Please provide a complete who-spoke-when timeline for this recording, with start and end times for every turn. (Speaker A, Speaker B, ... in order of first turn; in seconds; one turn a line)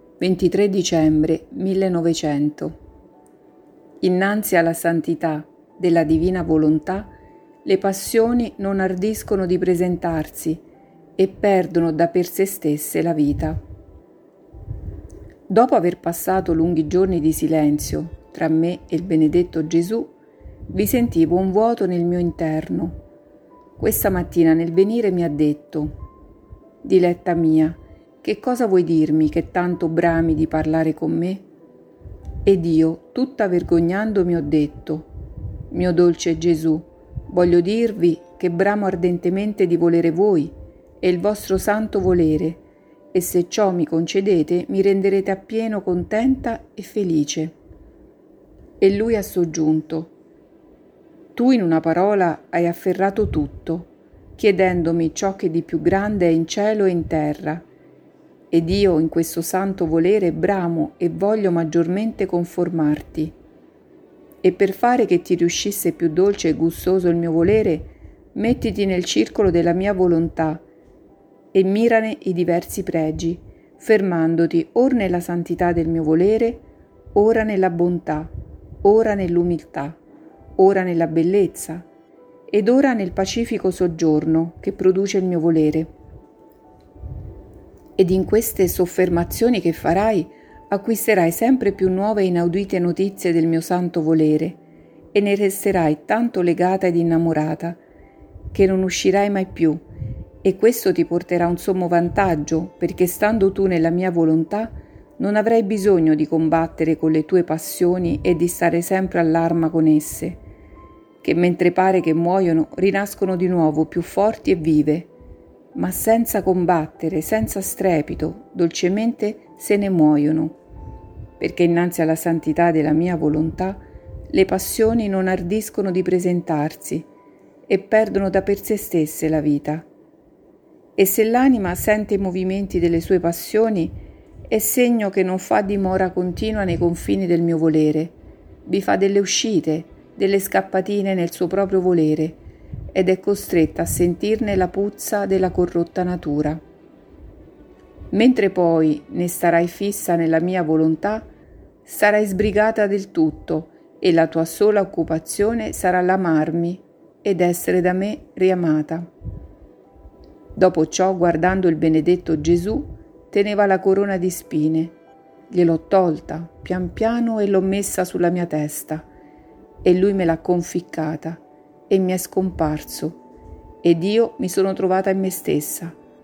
Speaker A: 0.2-2.8
Speaker A: 4.0-10.6
Speaker A: 11.2-13.6
Speaker A: 15.5-20.1
Speaker A: 20.7-23.0
Speaker A: 23.8-25.9
Speaker A: 26.8-31.4
Speaker A: 32.4-35.1
Speaker A: 35.7-42.6
Speaker A: 43.1-47.5
Speaker A: 48.8-50.1
Speaker A: 51.3-57.6
Speaker A: 58.5-63.3
Speaker A: 64.4-70.6
Speaker A: 71.5-78.3
Speaker A: 78.8-80.0
Speaker A: 80.6-81.9
Speaker A: 82.5-85.9
Speaker A: 88.0-94.6
Speaker A: 95.1-97.8
Speaker A: 98.5-99.8
Speaker A: 100.4-110.4
Speaker A: 111.2-115.1
Speaker A: 115.7-120.6
Speaker A: 121.4-127.1
Speaker A: 127.7-129.9
Speaker A: 130.9-142.4
Speaker A: 142.9-146.6
Speaker A: 148.1-151.3
Speaker A: 151.8-159.1
Speaker A: 160.5-164.9
Speaker A: 165.5-169.1
Speaker A: 169.8-173.2
Speaker A: 173.8-176.0